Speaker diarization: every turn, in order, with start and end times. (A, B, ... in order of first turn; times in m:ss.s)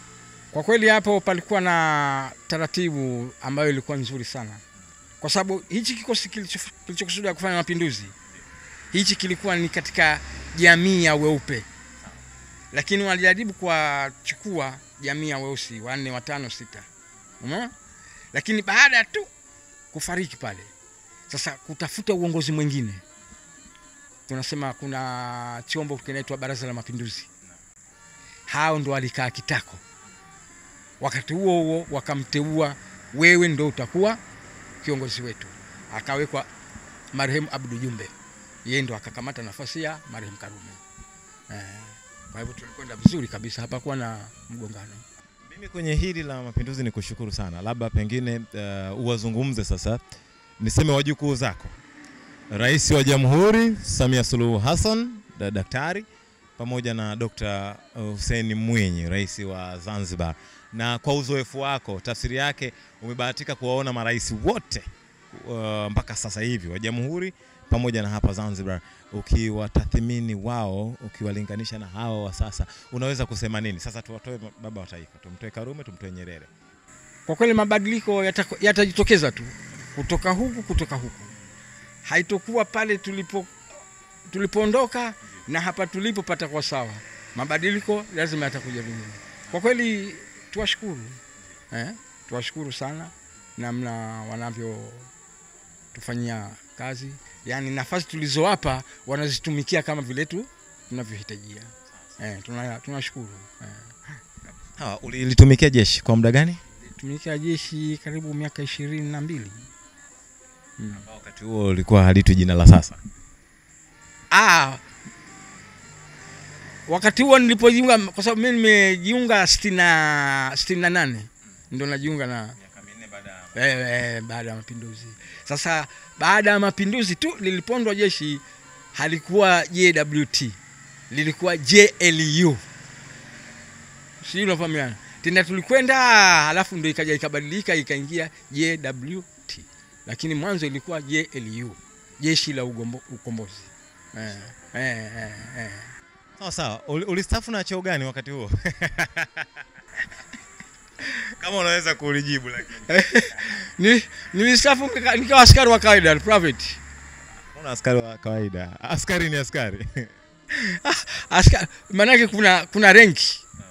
0:00.5-0:04.6 A
0:05.2-0:08.1 A
0:08.9-0:11.7 A
0:12.7-0:16.9 A
0:17.4-0:17.7 A
0:18.3-0:19.3 A
0:19.9-0:20.7 A
0:21.3-0:23.0 A
0:24.3-0:27.3 A
0:28.5-0:29.8 A
0:31.0-0:34.2 A
0:34.8-0:36.5 A
0:37.1-0:38.1 A
0:38.6-0:40.8 A
0:41.5-0:45.0 A
0:45.4-0:50.0 B
0:50.6-0:51.8 B
0:52.5-0:56.1 B
0:56.6-1:16.5 B
1:17.2-1:21.3 A
1:22.0-1:23.5 A
1:24.3-1:31.2 A
1:31.7-1:35.1 A
1:35.9-1:44.5 A
1:44.8-1:46.6 B
1:46.7-1:49.7 A
1:50.8-1:51.0 A
1:50.9-1:53.0 B
1:54.3-1:54.8 A
1:56.9-2:02.6 A
2:02.6-2:03.6 B
2:03.5-2:08.4 A
2:08.9-2:10.6 A
2:11.1-2:12.6 A
2:14.2-2:25.9 A
2:26.4-2:29.5 B
2:31.2-2:33.5 B
2:32.9-2:36.8 A
2:37.5-2:40.1 B
2:40.5-2:43.4 A